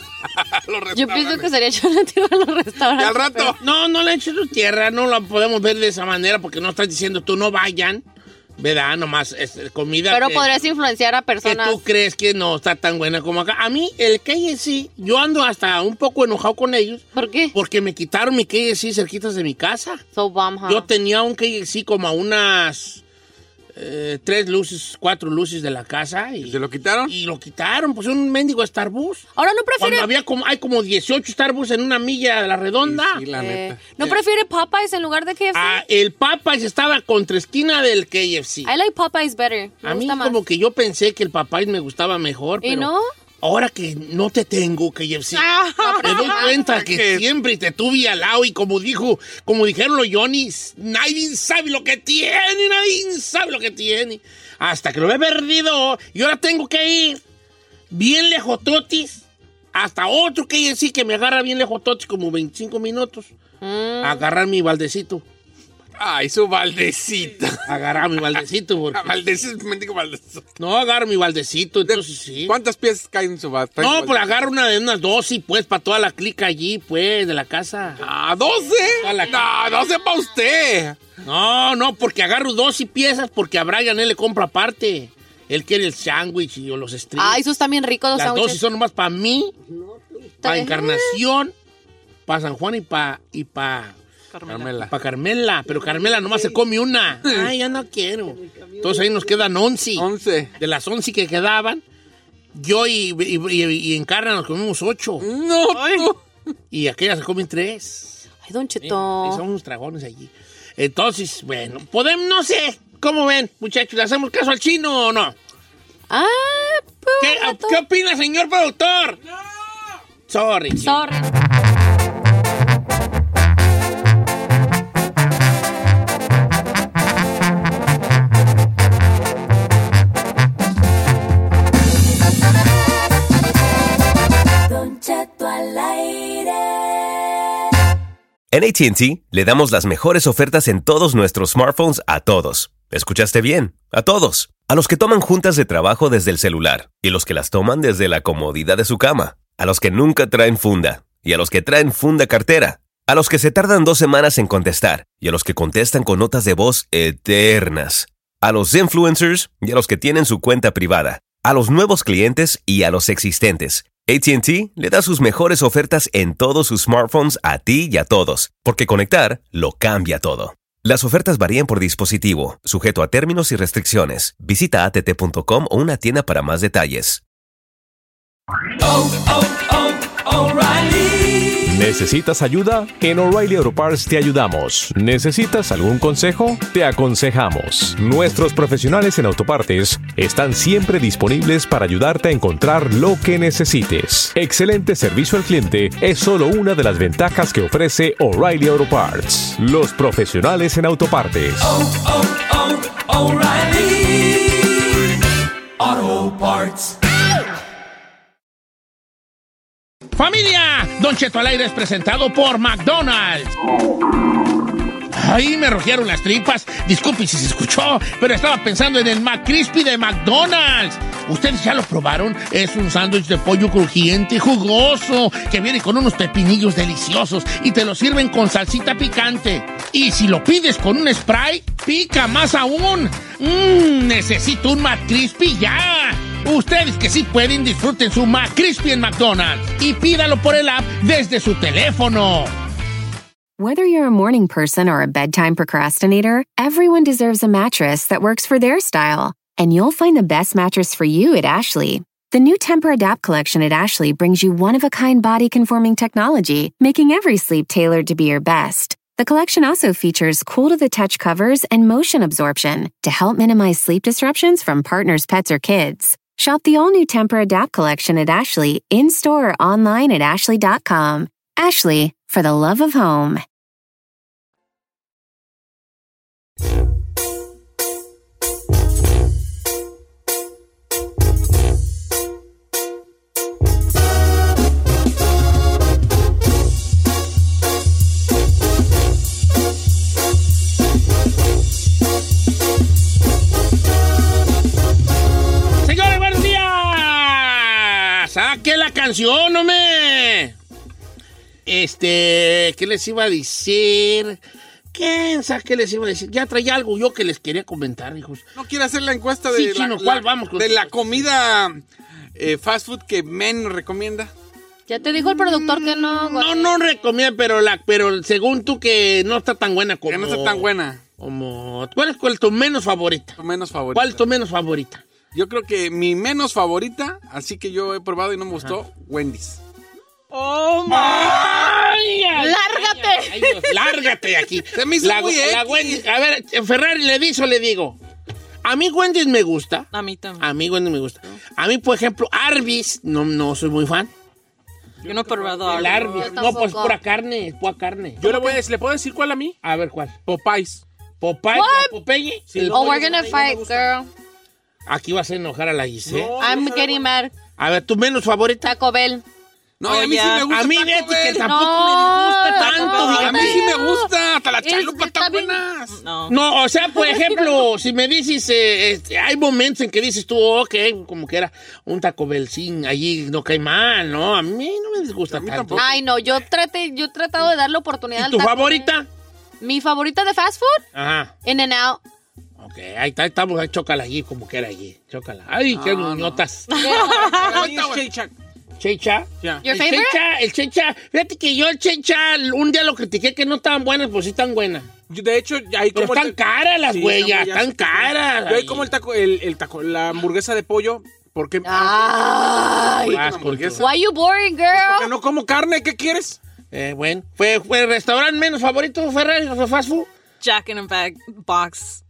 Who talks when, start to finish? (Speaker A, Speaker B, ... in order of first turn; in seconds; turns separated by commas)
Speaker A: 0.2-1.5, Speaker B: 0.9-3.5, Speaker A: 2.9-3.5, Speaker C: 3.6-8.0, Speaker C: 8.6-10.6, Speaker B: 10.1-11.8, Speaker C: 11.4-20.0, Speaker B: 17.1-17.5, Speaker B: 20.1-20.9, Speaker C: 20.6-23.0, Speaker C: 23.7-29.2, Speaker A: 26.4-27.1, Speaker B: 29.4-30.1, Speaker C: 29.8-33.2, Speaker A: 32.8-34.2, Speaker B: 33.3-35.8, Speaker C: 35.5-38.7, Speaker B: 38.6-40.4, Speaker C: 39.8-57.2, Speaker B: 42.6-43.1, Speaker D: 45.4-46.4, Speaker B: 45.7-46.7, Speaker A: 46.6-47.3, Speaker C: 57.9-63.3, Speaker B: 63.6-64.2, Speaker C: 64.0-65.2, Speaker A: 66.0-67.7, Speaker C: 67.7-69.2, Speaker A: 68.9-70.4, Speaker C: 70.6-72.5, Speaker A: 71.8-74.3, Speaker C: 73.8-78.0, Speaker A: 78.0-81.0, Speaker C: 79.0-79.4, Speaker C: 81.2-87.4, Speaker B: 87.2-88.6, Speaker C: 88.1-89.5, Speaker B: 90.4-91.2, Speaker C: 90.4-91.5, Speaker C: 92.2-94.0, Speaker D: 94.3-94.7, Speaker A: 94.5-94.9, Speaker C: 94.7-101.8, Speaker A: 97.2-97.5, Speaker A: 100.0-100.5, Speaker C: 102.5-105.2, Speaker A: 105.2-106.2, Speaker D: 105.7-106.1, Speaker C: 106.7-108.2, Speaker B: 108.4-109.4, Speaker C: 108.8-115.3, Speaker B: 116.1-117.8, Speaker C: 117.2-119.2, Speaker C: 120.3-121.0, Speaker B: 120.8-121.3, Speaker E: 134.7-137.3, Speaker F: 138.5-177.2, Speaker G: 181.5-201.8, Speaker C: 210.1-213.5, Speaker C: 215.1-242.5, Speaker H: 243.6-273.4, Speaker C: 295.8-300.5, Speaker C: 301.6-304.4, Speaker C: 304.9-308.5, Speaker A: 308.5-311.8, Speaker C: 309.5-311.3, Speaker A: 312.4-314.3, Speaker B: 314.9-317.1, Speaker C: 315.1-323.4, Speaker A: 320.1-321.0, Speaker A: 323.4-324.2, Speaker C: 323.9-325.0, Speaker A: 325.3-329.6, Speaker D: 330.3-331.4, Speaker I: 330.4-331.1, Speaker C: 330.9-338.0, Speaker B: 332.3-333.6, Speaker A: 334.7-336.0, Speaker C: 338.6-339.9, Speaker D: 339.9-340.4, Speaker C: 340.4-344.1, Speaker I: 345.0-346.6, Speaker D: 345.0-346.1, Speaker C: 345.7-348.5, Speaker B: 346.1-347.0, Speaker I: 348.2-349.6, Speaker C: 349.6-350.1, Speaker I: 350.2-350.8, Speaker C: 351.2-353.1, Speaker B: 351.5-351.9, Speaker I: 352.5-353.9, Speaker B: 352.7-354.1, Speaker C: 354.9-356.4, Speaker I: 356.0-357.1, Speaker B: 356.4-357.3, Speaker C: 357.6-358.7, Speaker B: 358.6-359.2, Speaker A: 359.8-361.4, Speaker D: 359.8-360.5, Speaker C: 360.5-363.6, Speaker B: 361.3-365.6, Speaker D: 362.6-363.2, Speaker A: 363.1-366.0, Speaker D: 365.9-366.3, Speaker C: 366.3-375.9, Speaker B: 367.1-367.5, Speaker A: 375.3-376.0, Speaker B: 375.7-378.9, Speaker C: 378.1-379.1, Speaker B: 379.6-380.8, Speaker C: 380.9-381.3, Speaker B: 381.4-382.0, Speaker C: 382.6-386.7, Speaker A: 385.7-386.4, Speaker D: 386.7-387.4, Speaker B: 386.8-387.5, Speaker I: 386.8-388.3, Speaker A: 387.3-388.1, Speaker C: 388.8-394.9, Speaker B: 389.6-390.2, Speaker I: 395.1-396.4, Speaker C: 395.9-398.9, Speaker I: 396.9-402.1, Speaker B: 401.6-405.1, Speaker C: 403.1-403.8, Speaker A: 403.1-403.9, Speaker I: 404.8-406.4, Speaker C: 406.7-410.1, Speaker D: 410.4-412.0